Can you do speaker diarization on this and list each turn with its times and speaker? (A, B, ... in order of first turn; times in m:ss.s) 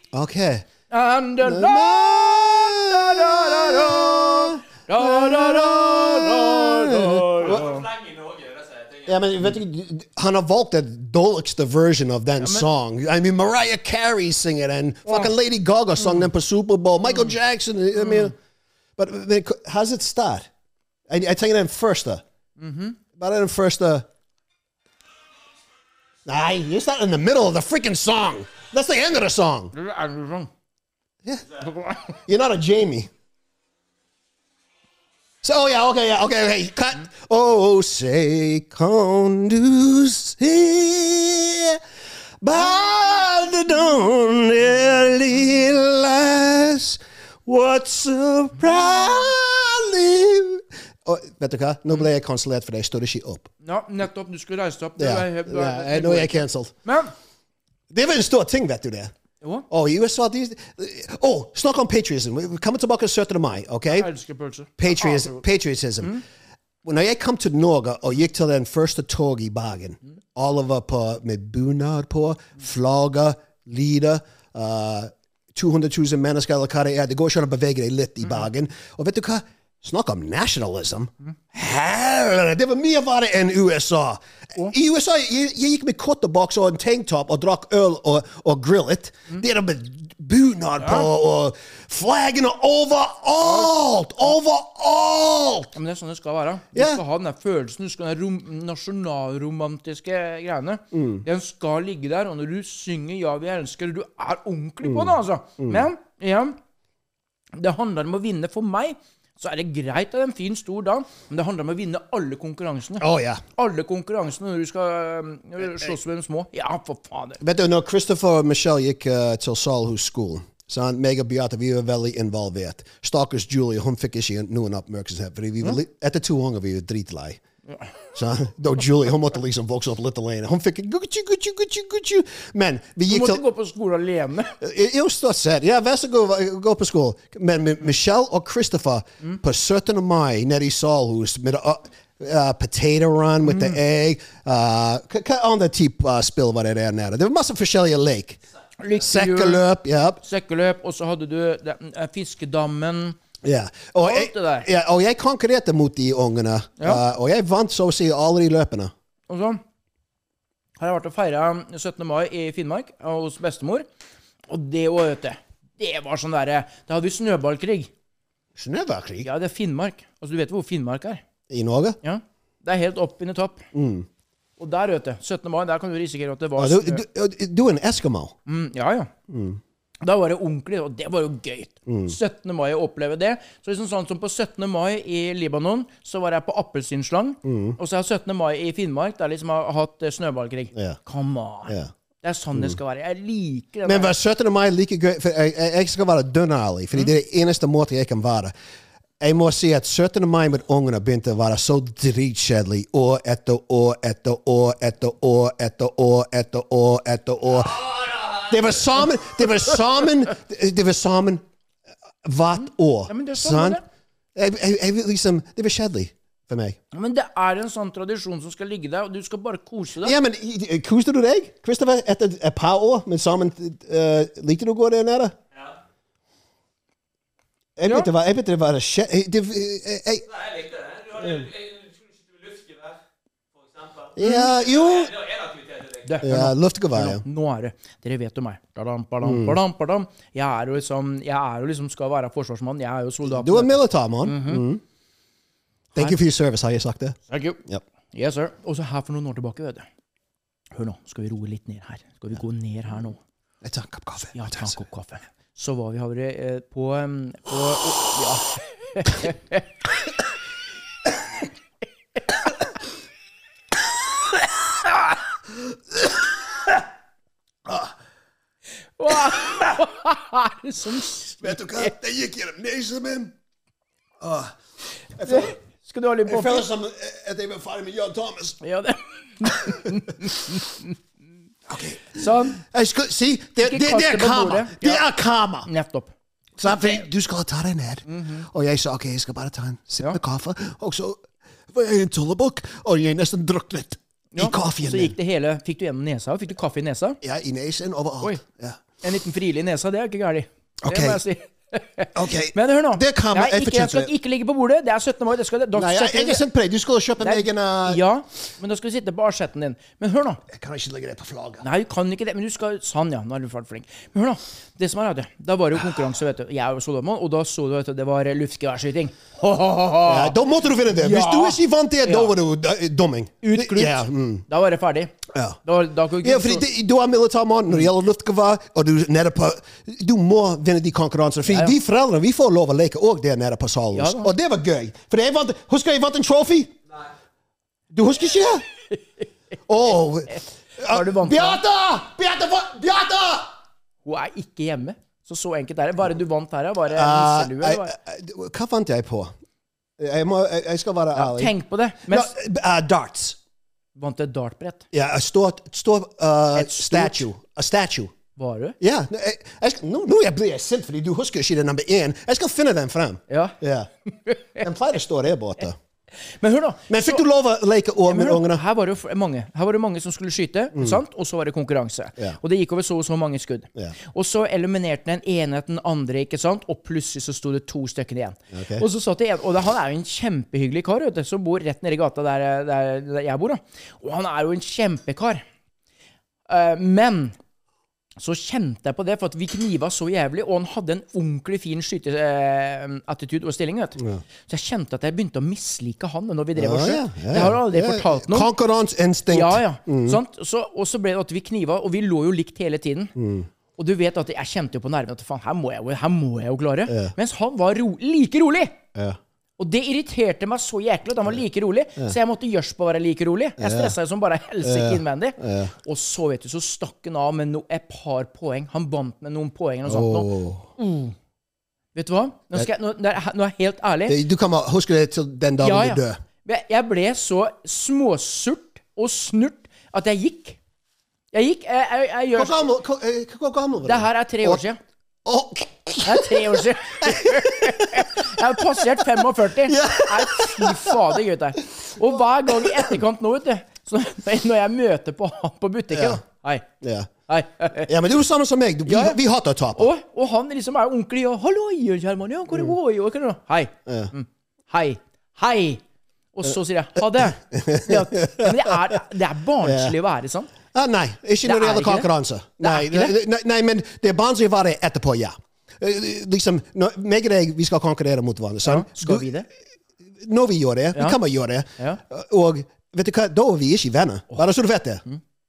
0:00.1-0:00.6 A
0:00.9-0:07.9 B
0:01.4-0:07.6 A
0:07.4-0:09.3 C
0:09.0-0:18.3 A
0:12.4-0:12.7 B
0:15.0-0:15.3 B
0:16.0-0:16.3 B
0:17.0-0:17.4 B
0:18.0-0:18.3 B
0:19.0-0:20.5 A
0:21.1-0:22.2 A
0:22.6-0:23.0 B
0:23.2-0:24.0 A
0:26.2-0:29.7 A
0:29.7-0:30.5 B
0:31.6-0:32.2 B
0:32.2-0:33.1 A
0:35.4-0:41.8 A
0:42.4-0:53.5 A
0:53.6-0:57.1 B
0:55.0-0:56.7 A
0:57.9-0:59.1 A
0:59.4-0:59.7 B
0:59.7-1:04.1 A
1:03.9-1:05.4 B
1:04.8-1:06.2 A
1:06.8-1:35.7 A
1:30.8-1:31.1 B
1:33.4-1:33.7 B
1:35.7-1:46.6 B
1:36.7-1:37.0 A
1:40.9-1:41.2 A
1:44.8-1:45.9 A
1:47.6-1:57.4 B
1:53.0-1:53.4 A
1:57.4-2:07.4 A
2:08.1-2:13.4 A
2:13.1-2:14.6 B
2:14.6-2:28.4 A
2:23.4-2:23.8 B
2:28.8-2:29.6 B
2:28.9-2:30.2 A
2:30.2-2:33.2 B
2:33.4-2:38.9 A
2:34.0-2:34.7 B
2:39.3-2:39.6 B
2:40.8-2:43.8 B
2:44.5-2:47.9 B
2:48.6-2:49.3 A
2:49.2-2:51.2 B
2:51.5-2:52.0 A
2:52.0-2:53.6 B
2:53.7-2:54.1 A
2:54.6-2:57.0 B
2:56.6-2:58.3 A
2:58.4-2:59.1 B
2:59.3-2:59.6 A
3:00.0-3:14.1 B
3:01.9-3:02.2 A
3:07.4-3:07.8 A
3:10.7-3:11.0 A
3:13.8-3:18.5 A
3:19.2-3:31.4 A
3:32.2-3:33.8 A
3:32.6-3:33.8 B
3:34.3-3:36.8 A
3:36.9-3:40.2 B
3:40.0-3:45.4 A
3:47.8-3:50.2 A
3:47.8-3:48.1 B
3:50.2-3:53.0 C
3:53.5-3:56.2 C
3:54.2-3:55.1 A
3:54.2-3:54.5 B
3:56.0-4:04.6 B
3:56.2-3:57.2 A
3:59.2-3:59.6 A
4:03.2-4:04.8 A
4:05.9-4:07.8 A
4:07.3-4:09.8 B
4:10.8-4:13.2 B
4:13.6-4:14.8 A
4:14.3-4:19.6 B
4:27.6-4:27.9 A
4:29.0-4:31.9 B
4:31.4-4:33.3 A
4:34.2-4:34.5 A
4:35.2-4:35.6 A
4:35.2-4:36.7 B
4:36.2-4:38.6 A
4:38.6-4:40.9 B
4:39.4-4:39.9 A
4:41.7-4:45.7 A
4:42.1-4:42.6 B
4:43.6-4:45.0 B
4:45.6-4:46.1 B
4:46.6-4:55.2 A
4:48.1-4:48.4 B
4:54.3-4:57.2 B
4:57.2-4:58.8 A
4:59.0-5:06.4 B
5:00.8-5:01.2 A
5:02.1-5:04.1 A
5:05.7-5:08.0 A
5:07.2-5:10.4 B
5:10.5-5:11.6 A
5:11.6-5:20.4 B
5:20.0-5:24.4 A
5:20.9-5:22.3 B
5:23.4-5:26.7 B
5:25.3-5:25.6 A
5:26.2-5:36.7 A
5:31.5-5:31.7 B
5:33.9-5:34.3 B
5:37.9-5:38.6 A
5:39.7-5:43.5 A
5:40.8-5:41.6 B
5:44.0-5:47.9 B
5:46.9-5:49.3 A
5:50.0-5:51.5 A
5:51.1-5:52.3 B
5:52.0-5:53.4 A
5:54.0-5:54.8 B
5:54.9-5:58.1 A
5:56.6-5:57.2 B
5:58.4-5:58.8 B
5:58.8-6:03.9 A
6:03.3-6:04.6 B
6:04.6-6:05.8 A
6:06.4-6:07.2 B
6:06.9-6:08.6 A
6:08.1-6:25.4 B
6:10.7-6:11.0 A
6:18.5-6:18.8 A
6:26.5-6:27.3 B
6:28.2-6:38.5 B
6:36.6-6:40.2 A
6:39.3-6:43.1 B
6:43.2-6:43.5 A
6:43.8-6:48.8 B
6:49.6-7:01.1 B
6:53.6-6:54.0 A
6:54.6-6:55.7 A
6:59.8-7:00.7 A
7:01.9-7:04.2 B
7:04.1-7:06.2 A
7:05.6-7:10.6 B
7:11.3-7:12.6 B
7:12.3-7:14.6 A
7:13.8-7:14.8 B
7:15.2-7:18.0 A
7:16.0-7:26.6 B
7:19.2-7:21.2 A
7:22.5-7:22.9 A
7:25.9-7:26.2 A
7:26.8-7:27.1 A
7:27.3-7:27.9 B
7:27.8-7:29.9 A
7:28.8-7:29.2 B
7:29.8-7:35.8 B
7:33.8-7:34.1 A
7:36.3-7:40.5 B
7:37.2-7:38.9 A
7:39.6-7:40.0 A
7:40.7-7:49.3 A
7:41.4-7:42.1 B
7:42.6-7:43.2 B
7:48.6-7:49.5 B
7:50.2-7:55.0 A